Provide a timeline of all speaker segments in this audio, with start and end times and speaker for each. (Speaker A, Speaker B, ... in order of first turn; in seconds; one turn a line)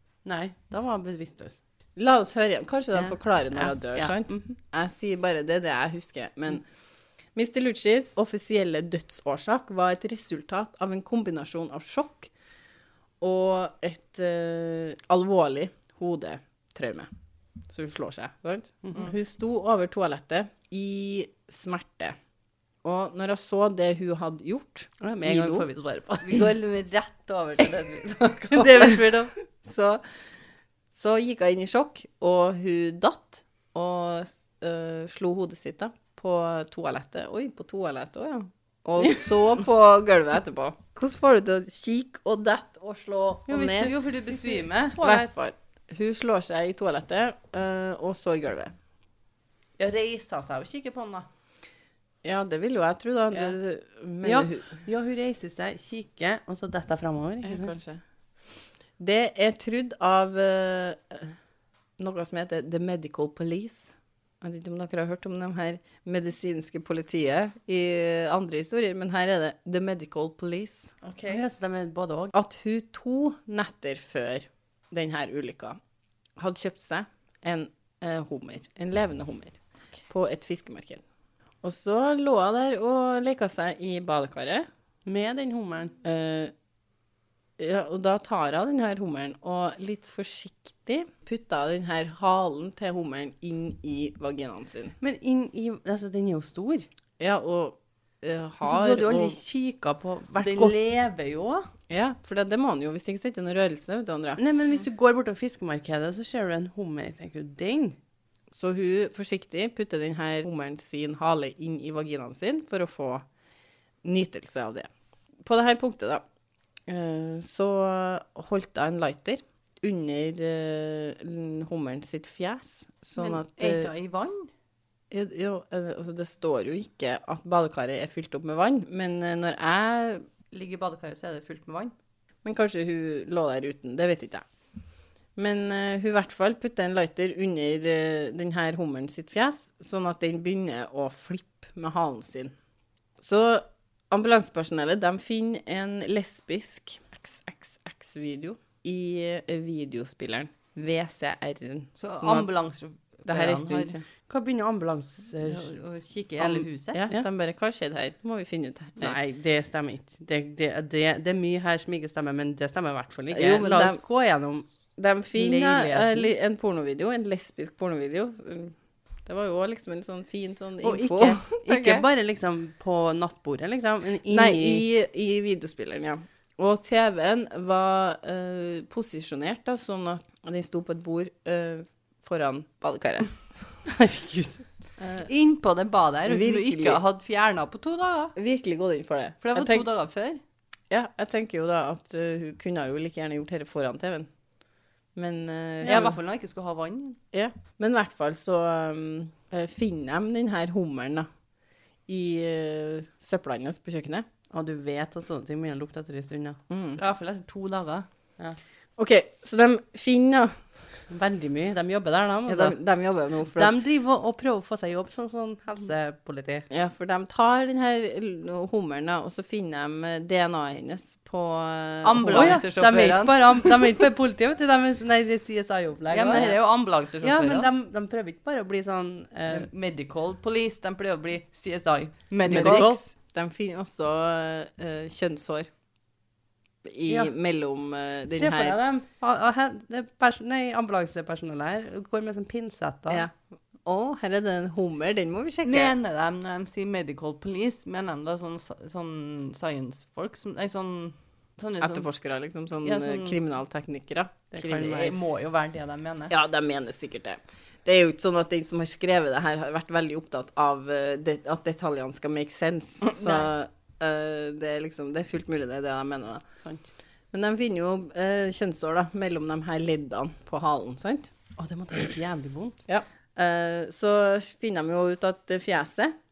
Speaker A: 0.2-1.6
Speaker B: 2.0-6.6
Speaker A: 2.9-4.5
Speaker B: 7.3-12.3
Speaker B: 13.2-17.1
Speaker B: 17.7-22.1
Speaker B: 22.8-25.6
Speaker A: 25.0-26.4
Speaker C: 26.2-29.3
Speaker A: 28.5-29.3
Speaker B: 29.6-30.0
Speaker B: 30.9-43.9
Speaker C: 43.5-45.0
Speaker A: 44.4-45.4
Speaker B: 45.0-48.7
Speaker C: 49.8-51.3
Speaker B: 52.2-54.8
Speaker A: 54.2-57.7
Speaker B: 57.4-61.4
Speaker B: 62.0-71.0
Speaker C: 71.0-71.4
Speaker A: 71.3-72.3
Speaker B: 72.3-75.8
Speaker B: 76.4-79.6
Speaker B: 80.1-81.0
Speaker B: 81.6-84.7
Speaker A: 85.0-85.9
Speaker B: 86.0-86.5
Speaker B: 87.6-94.9
Speaker A: 95.0-96.9
Speaker B: 97.2-99.4
Speaker A: 98.6-100.8
Speaker C: 100.4-101.7
Speaker B: 101.9-104.4
Speaker A: 104.4-108.0
Speaker B: 108.5-113.2
Speaker B: 114.0-114.9
Speaker B: 115.4-116.2
Speaker B: 116.9-123.9
Speaker C: 123.2-124.5
Speaker B: 125.1-130.2
Speaker C: 130.5-131.9
Speaker B: 132.4-134.4
Speaker B: 135.3-142.5
Speaker B: 143.2-152.5
Speaker C: 152.0-153.9
Speaker B: 153.3-154.1
Speaker A: 154.3-155.8
Speaker C: 155.4-157.0
Speaker A: 156.5-157.2
Speaker B: 156.9-159.2
Speaker A: 159.0-164.7
Speaker B: 163.3-164.0
Speaker B: 165.0-172.0
Speaker A: 165.3-166.3
Speaker A: 170.8-174.8
Speaker B: 174.3-183.3
Speaker A: 183.8-184.6
Speaker B: 185.0-185.3
Speaker C: 185.2-188.3
Speaker B: 186.3-187.0
Speaker B: 188.3-189.8
Speaker C: 189.4-190.4
Speaker B: 190.9-194.3
Speaker B: 195.2-196.1
Speaker A: 195.8-196.1
Speaker C: 195.8-197.2
Speaker B: 197.3-201.3
Speaker B: 202.1-204.2
Speaker A: 204.5-206.6
Speaker B: 206.7-207.0
Speaker C: 207.0-208.1
Speaker B: 209.0-210.7
Speaker A: 211.1-212.8
Speaker B: 212.5-213.7
Speaker A: 213.6-216.7
Speaker B: 216.7-222.6
Speaker C: 222.0-223.9
Speaker A: 222.3-226.6
Speaker C: 226.1-227.7
Speaker A: 227.2-229.7
Speaker C: 229.5-233.0
Speaker B: 232.5-235.7
Speaker A: 232.5-233.0
Speaker B: 236.8-238.8
Speaker A: 238.3-243.2
Speaker B: 243.8-245.9
Speaker C: 245.6-252.1
Speaker B: 251.8-255.1
Speaker C: 252.8-253.4
Speaker A: 254.5-255.1
Speaker C: 254.7-256.3
Speaker B: 256.3-266.4
Speaker C: 263.0-263.5
Speaker A: 266.6-266.9
Speaker B: 267.3-271.3
Speaker A: 271.6-272.8
Speaker B: 272.9-276.1